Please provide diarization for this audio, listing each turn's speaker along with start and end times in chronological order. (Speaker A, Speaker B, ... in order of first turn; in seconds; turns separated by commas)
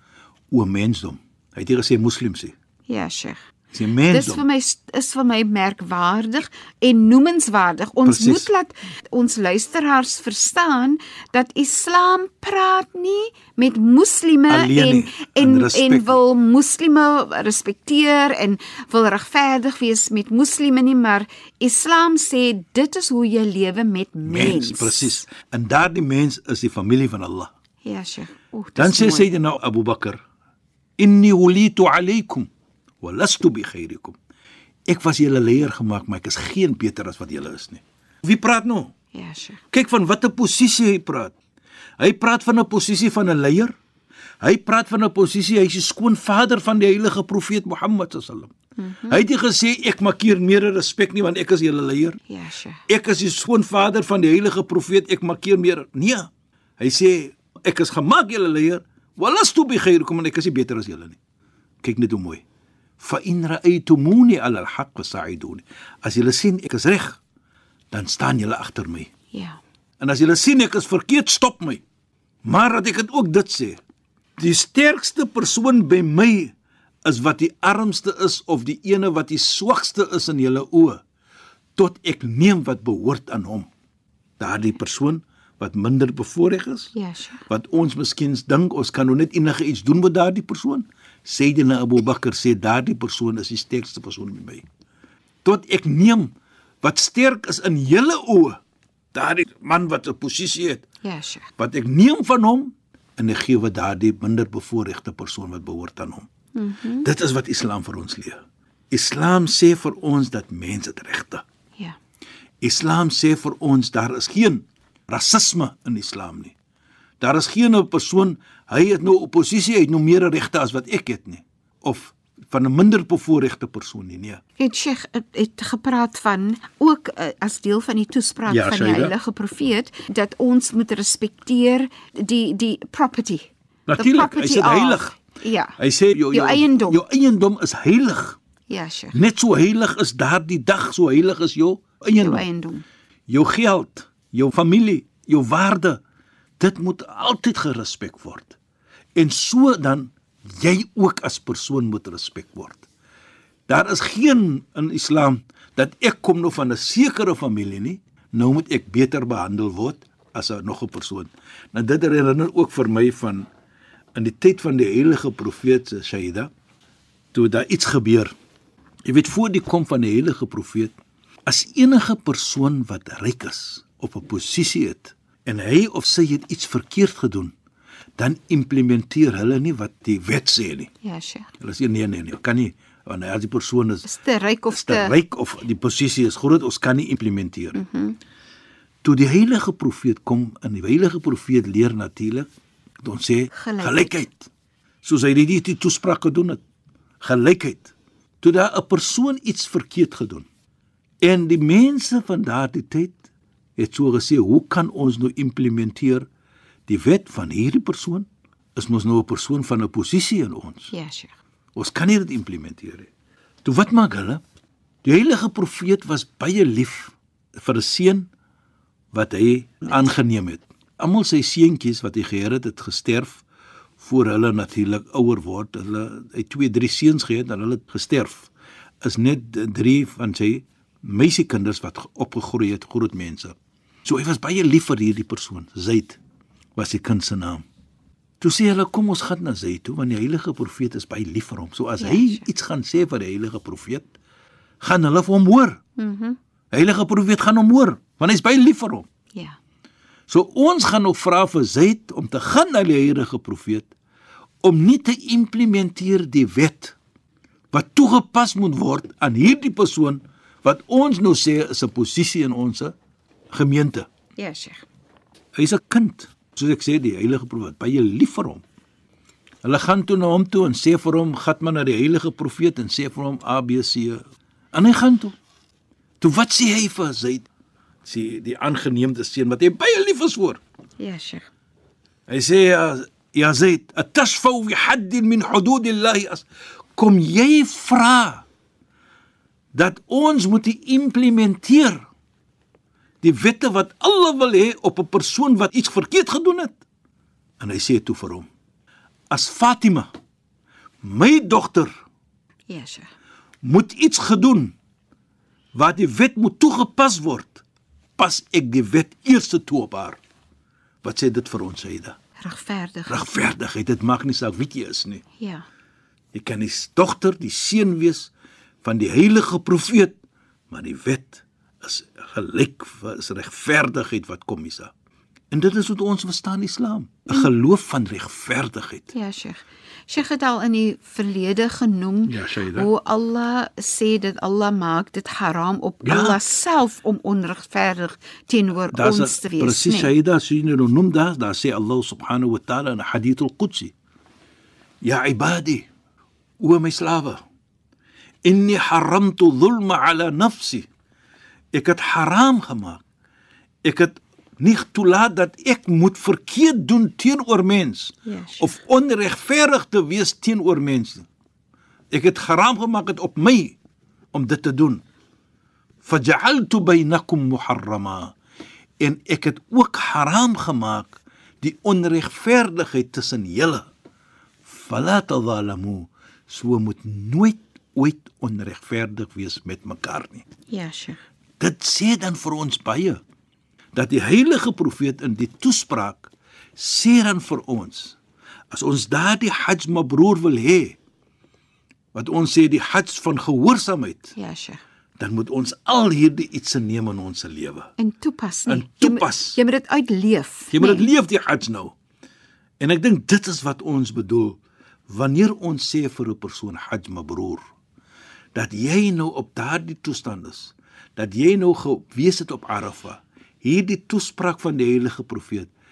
Speaker A: 0.5-2.5, Speaker B: 2.9-3.4, Speaker A: 3.7-4.4, Speaker B: 4.1-25.2, Speaker A: 8.0-8.5, Speaker A: 14.5-16.2, Speaker A: 24.2-27.5, Speaker B: 27.8-29.3, Speaker A: 28.8-30.2, Speaker A: 31.0-32.5, Speaker A: 33.0-34.2, Speaker A: 34.9-38.9, Speaker B: 39.1-39.6, Speaker A: 39.7-41.3, Speaker A: 42.0-43.7, Speaker A: 44.4-48.5, Speaker B: 48.8-49.2, Speaker A: 49.1-52.2, Speaker B: 52.3-52.8, Speaker A: 52.9-61.2, Speaker A: 61.8-62.4, Speaker A: 63.0-67.2, Speaker A: 67.9-69.1, Speaker B: 69.3-69.6, Speaker A: 70.0-71.8, Speaker A: 72.4-73.8, Speaker A: 74.4-76.5, Speaker A: 77.0-81.0, Speaker A: 81.8-83.7, Speaker A: 84.4-86.9, Speaker B: 86.9-87.4, Speaker A: 87.5-94.6, Speaker A: 95.4-98.6, Speaker A: 99.1-100.8, Speaker B: 101.0-101.5, Speaker A: 101.6-106.3, Speaker B: 106.5-107.1, Speaker A: 107.0-111.4, Speaker A: 112.6-116.5, Speaker A: 117.2-124.4, Speaker B: 124.6-135.8, Speaker A: 128.5-129.1, Speaker A: 133.9-135.2, Speaker A: 135.8-138.4, Speaker B: 136.3-137.0, Speaker B: 138.7-139.2, Speaker A: 139.1-142.4, Speaker B: 142.2-142.8, Speaker A: 143.3-146.0, Speaker A: 146.6-148.6, Speaker A: 149.2-152.8, Speaker A: 153.7-163.5, Speaker A: 164.1-166.5, Speaker A: 167.3-168.3, Speaker A: 169.1-170.9, Speaker A: 171.4-177.5, Speaker A: 178.2-180.9, Speaker B: 181.0-181.5, Speaker A: 181.6-184.1, Speaker B: 184.0-185.1, Speaker A: 184.7-187.8, Speaker B: 187.7-188.2, Speaker A: 189.0-192.5, Speaker A: 193.0-194.5, Speaker B: 193.5-194.2, Speaker A: 195.0-196.6, Speaker A: 197.2-200.5, Speaker A: 201.2-203.2, Speaker A: 203.8-206.2, Speaker A: 206.9-210.9, Speaker B: 210.9-211.3, Speaker A: 211.7-213.1, Speaker A: 213.6-214.4, Speaker A: 215.0-218.3, Speaker A: 219.1-223.4, Speaker A: 224.0-228.5, Speaker A: 229.0-236.2, Speaker A: 236.8-237.6, Speaker A: 238.4-244.1, Speaker B: 242.0-242.4, Speaker A: 244.8-245.8, Speaker B: 246.0-246.4, Speaker A: 246.7-249.1, Speaker A: 250.3-253.9, Speaker A: 254.6-256.9, Speaker A: 257.7-262.9, Speaker A: 263.5-264.1, Speaker B: 264.4-264.8, Speaker A: 265.5-268.6, Speaker A: 269.6-274.2, Speaker A: 274.7-275.3, Speaker A: 276.2-277.5, Speaker A: 278.0-280.6, Speaker B: 281.0-281.5, Speaker A: 282.3-288.4, Speaker A: 289.7-292.1, Speaker A: 293.2-296.8, Speaker A: 297.6-298.5, Speaker A: 299.3-300.1, Speaker A: 301.0-301.9, Speaker B: 302.7-303.1, Speaker A: 303.6-304.7, Speaker A: 305.7-307.6, Speaker A: 308.2-310.2, Speaker A: 311.0-312.1, Speaker B: 312.4-313.3, Speaker A: 313.1-315.2, Speaker B: 315.4-315.6, Speaker A: 316.3-318.3, Speaker A: 318.8-320.1, Speaker A: 320.7-324.9, Speaker A: 325.5-329.1, Speaker B: 329.1-340.1, Speaker A: 332.3-332.9, Speaker A: 336.0-336.4, Speaker A: 338.9-343.9, Speaker A: 345.0-345.9, Speaker A: 346.6-347.4, Speaker A: 348.4-350.9, Speaker A: 351.7-353.0, Speaker A: 353.9-361.3, Speaker B: 358.3-358.7, Speaker A: 362.1-363.8, Speaker A: 364.3-365.0, Speaker A: 366.0-368.3, Speaker A: 369.0-373.9, Speaker A: 374.6-380.4, Speaker B: 380.7-381.2, Speaker A: 381.6-383.2, Speaker A: 383.9-388.2, Speaker A: 388.7-391.0, Speaker A: 392.1-394.3, Speaker B: 394.3-394.8, Speaker A: 395.2-397.9, Speaker B: 398.0-401.1, Speaker A: 398.7-399.6, Speaker A: 400.7-401.9, Speaker A: 402.8-404.6, Speaker A: 405.1-407.6, Speaker A: 408.5-415.7